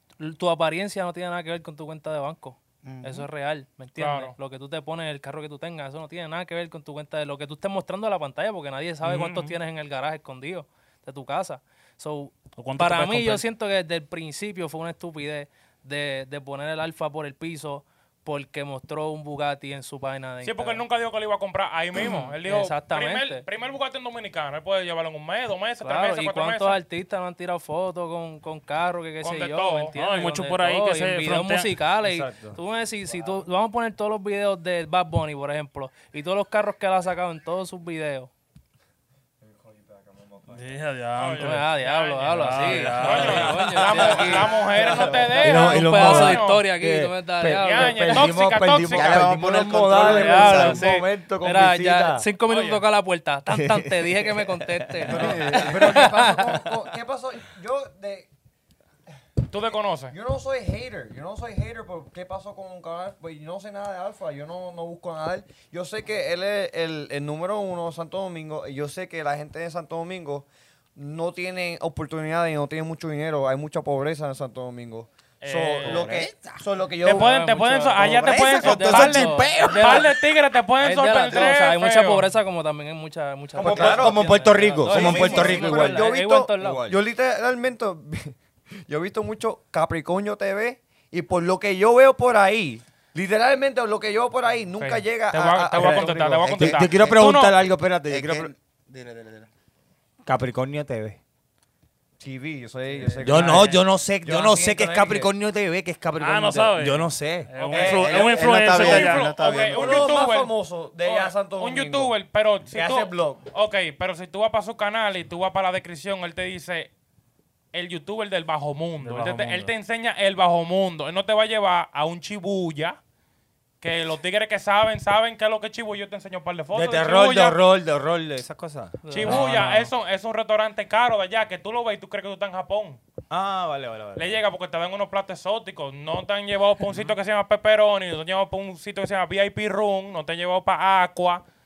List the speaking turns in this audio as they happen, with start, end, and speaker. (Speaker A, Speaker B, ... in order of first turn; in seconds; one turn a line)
Speaker A: 0.2-20.8
Speaker B: 2.8-3.3
Speaker C: 4.0-4.3
Speaker D: 9.0-9.6
Speaker D: 12.6-13.4
Speaker C: 20.4-26.8
Speaker A: 21.9-23.5
Speaker A: 25.8-38.3
Speaker C: 29.2-29.9
Speaker D: 29.9-31.7
Speaker E: 32.0-32.6
Speaker F: 33.1-33.5
Speaker F: 39.4-40.8
Speaker D: 40.5-41.7
Speaker C: 41.2-46.7
Speaker A: 41.4-48.3
Speaker D: 42.4-43.7
Speaker E: 43.2-44.3
Speaker F: 43.7-45.4
Speaker B: 44.7-45.4
Speaker E: 45.4-52.2
Speaker C: 47.5-49.4
Speaker B: 48.9-50.9
Speaker F: 49.7-50.9
Speaker A: 50.0-56.7
Speaker C: 52.5-52.8
Speaker E: 53.5-55.6
Speaker F: 55.1-58.3
Speaker B: 55.1-55.8
Speaker C: 59.5-60.1
Speaker F: 60.1-77.3
Speaker C: 75.4-76.2
Speaker B: 75.8-76.6
Speaker C: 77.0-82.3
Speaker A: 77.0-80.2
Speaker B: 78.0-80.2
Speaker A: 80.8-86.8
Speaker E: 83.5-87.0
Speaker F: 83.5-97.0
Speaker C: 94.8-97.6
Speaker E: 95.8-98.5
Speaker B: 98.1-99.5
Speaker E: 100.2-101.2
Speaker F: 102.2-105.3
Speaker B: 103.0-103.3
Speaker E: 103.2-107.5
Speaker A: 103.4-103.7
Speaker D: 106.2-109.3
Speaker C: 107.5-116.9
Speaker F: 107.7-108.2
Speaker B: 107.8-110.2
Speaker F: 109.7-112.2
Speaker F: 112.7-113.4
Speaker C: 117.7-123.0
Speaker D: 119.0-119.7
Speaker C: 123.8-127.6
Speaker E: 126.7-129.4
Speaker A: 129.1-129.8
Speaker C: 129.1-133.0
Speaker D: 129.3-129.7
Speaker E: 133.3-134.4
Speaker C: 134.2-141.4